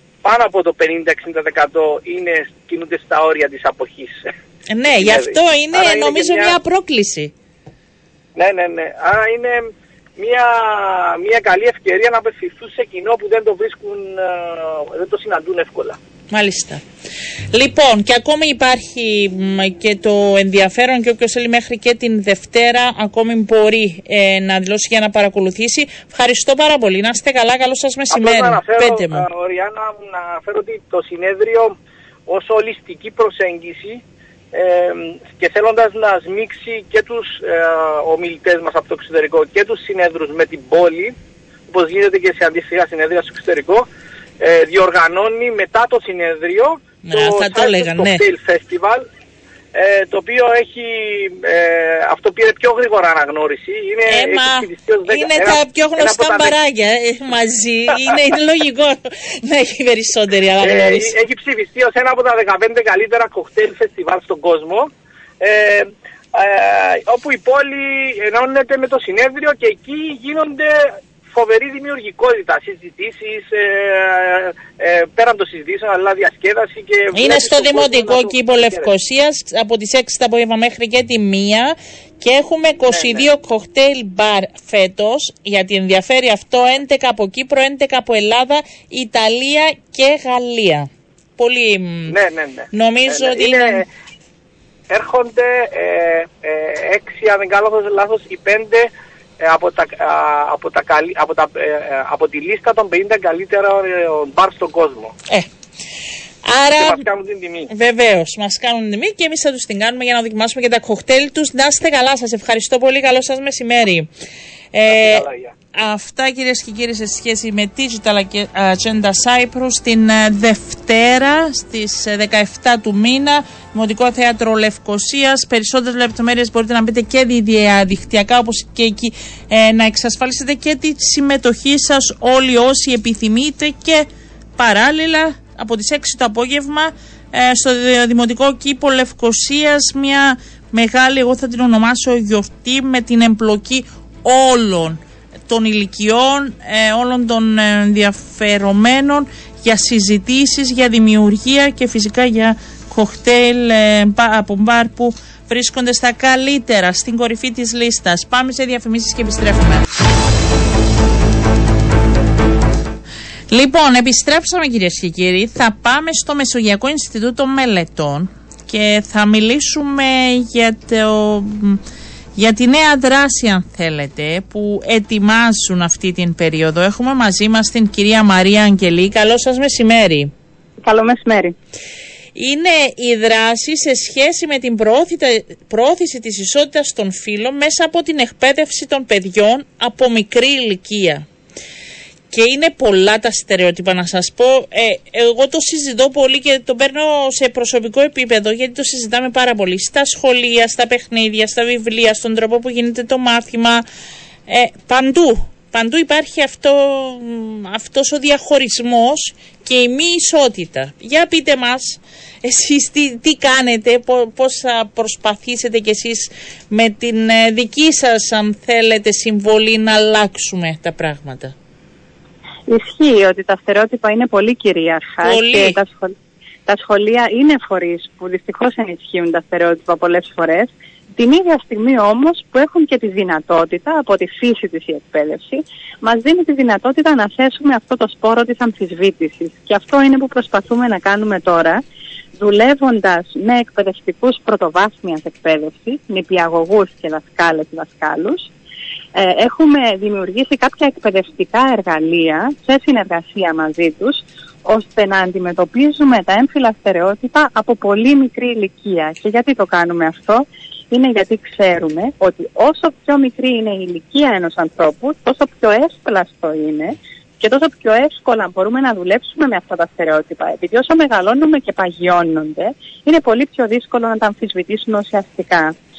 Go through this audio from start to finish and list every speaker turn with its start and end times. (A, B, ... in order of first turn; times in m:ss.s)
0:00.2-0:04.3 A
0:04.7-0:07.3 B
0:04.9-0:06.6 A
0:08.4-0:16.0 A
0:16.3-0:16.8 B
0:17.5-0:29.3 B
0:28.1-0:31.8 A
0:32.3-0:34.0 A
0:34.5-0:41.1 A
0:41.7-0:43.8 A
0:44.4-0:49.0 A
0:47.1-0:48.2 B
0:49.7-0:56.5 A
0:54.1-1:01.1 B
1:00.6-1:04.9 A
1:05.4-1:18.9 A
1:17.1-1:32.1 B
1:22.9-1:23.2 A
1:32.1-1:33.8 A
1:32.7-1:33.8 B
1:34.9-1:45.1 A
1:46.4-1:47.0 B
1:46.8-1:47.7 A
1:47.7-1:54.1 B
1:54.7-2:39.8 B
1:54.9-1:55.5 A
2:43.5-2:51.8 B
2:52.4-3:00.3 B
3:00.8-3:01.6 C
3:02.3-3:11.2 B
3:12.3-3:23.8 B
3:24.5-3:41.5 B
3:42.7-4:01.8 C
3:45.2-3:45.8 B
4:02.4-4:08.5 C
4:09.2-4:35.7 C